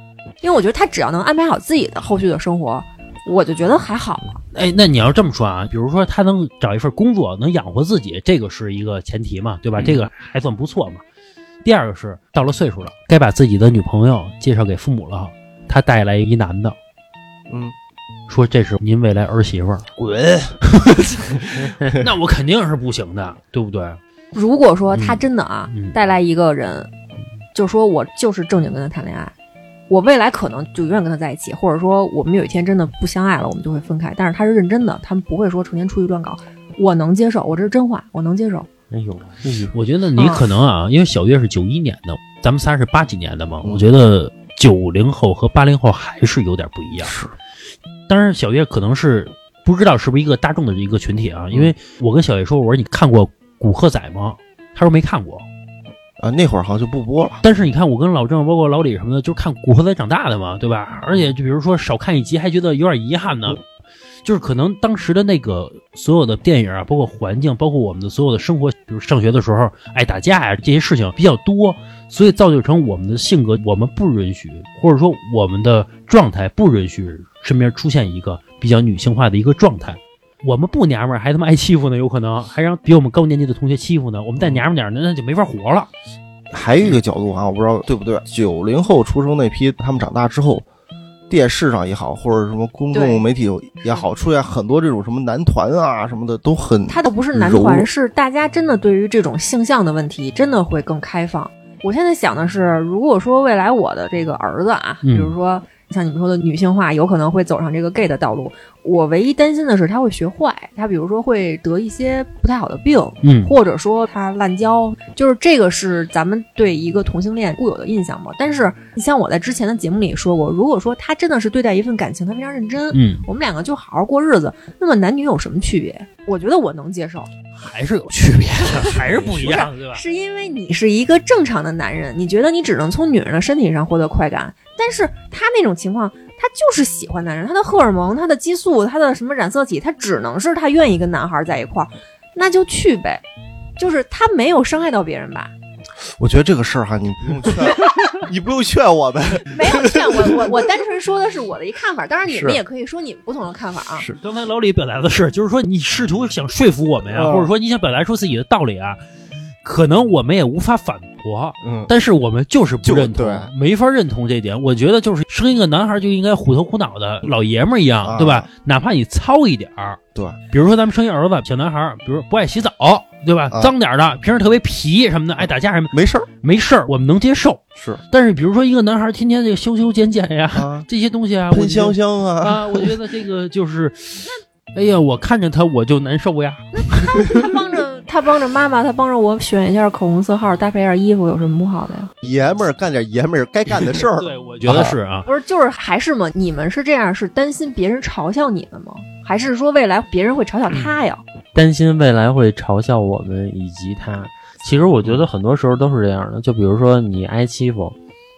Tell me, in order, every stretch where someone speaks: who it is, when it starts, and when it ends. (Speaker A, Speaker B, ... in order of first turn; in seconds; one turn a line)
Speaker A: 0.4-4.4
Speaker B: 4.5-11.0
Speaker C: 9.8-10.1
Speaker B: 11.6-16.8
Speaker C: 17.5-17.8
Speaker B: 18.3-24.0
Speaker C: 20.0-20.5
Speaker A: 24.3-26.9
Speaker B: 24.9-26.0
Speaker A: 27.5-29.3
Speaker A: 29.9-38.7
Speaker D: 38.9-39.8
Speaker B: 39.7-47.1
Speaker A: 40.2-40.5
Speaker C: 47.0-47.3
Speaker B: 48.1-55.5
Speaker C: 56.2-57.4
Speaker B: 57.4-63.6
Speaker B: 64.2-85.9
Speaker C: 84.4-84.6
Speaker C: 86.5-90.7
Speaker C: 91.3-97.9
Speaker A: 92.9-93.2
Speaker A: 96.9-127.3
Speaker B: 105.0-105.3
Speaker B: 113.2-113.5
Speaker B: 122.9-123.2
Speaker B: 127.5-130.0
Speaker A: 128.6-143.2
Speaker A: 143.8-145.5
Speaker C: 146.1-150.6
Speaker A: 149.5-154.1
Speaker C: 152.3-152.6
Speaker B: 154.2-159.0
Speaker C: 157.1-157.5
Speaker B: 159.6-170.0
Speaker C: 161.6-161.9
Speaker C: 162.8-163.5
Speaker C: 168.0-168.5
Speaker B: 170.5-187.5
Speaker C: 175.9-176.3
Speaker C: 180.5-180.9
Speaker C: 181.5-182.9
Speaker A: 186.8-192.1
Speaker C: 192.2-195.0
Speaker B: 193.8-195.3
Speaker A: 195.3-201.2
Speaker D: 201.5-208.0